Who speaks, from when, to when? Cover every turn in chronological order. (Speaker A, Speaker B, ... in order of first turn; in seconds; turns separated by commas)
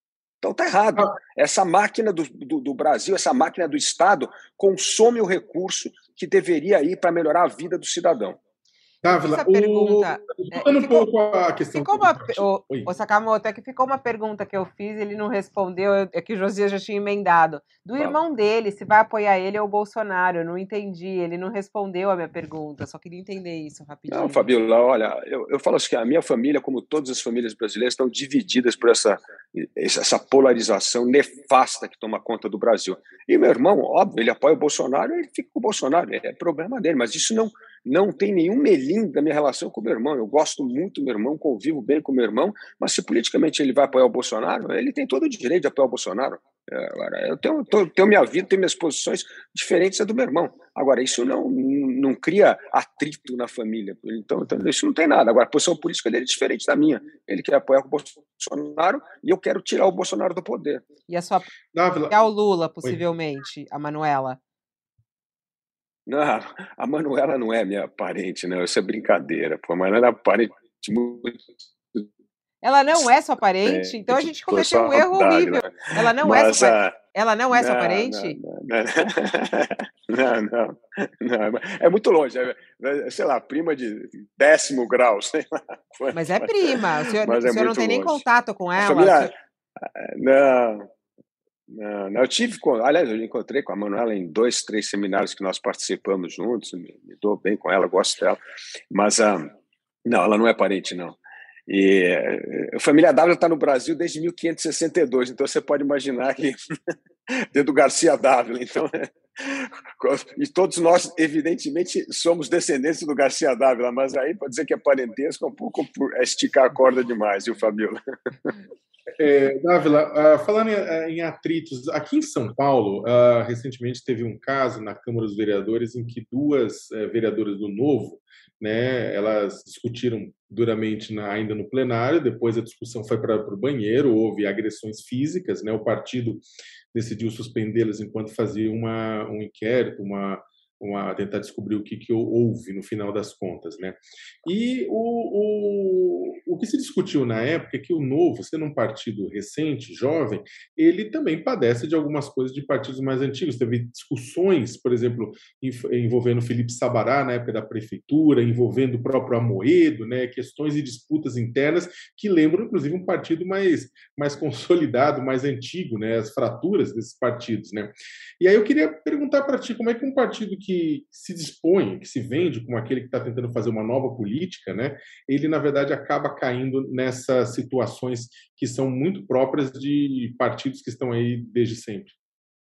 Speaker A: 0.4-8.4, Speaker B: 9.0-12.9, Speaker C: 9.1-11.1, Speaker C: 11.7-24.5, Speaker A: 24.1-60.9, Speaker C: 61.1-61.5, Speaker B: 61.7-62.2, Speaker C: 62.1-64.4, Speaker A: 66.1-71.4, Speaker C: 72.6-78.4, Speaker A: 73.7-77.0, Speaker A: 77.5-88.2, Speaker C: 86.1-89.3, Speaker A: 88.8-90.9, Speaker A: 91.7-98.4, Speaker A: 98.9-99.5, Speaker A: 100.1-106.6, Speaker A: 107.3-118.5, Speaker B: 119.2-182.2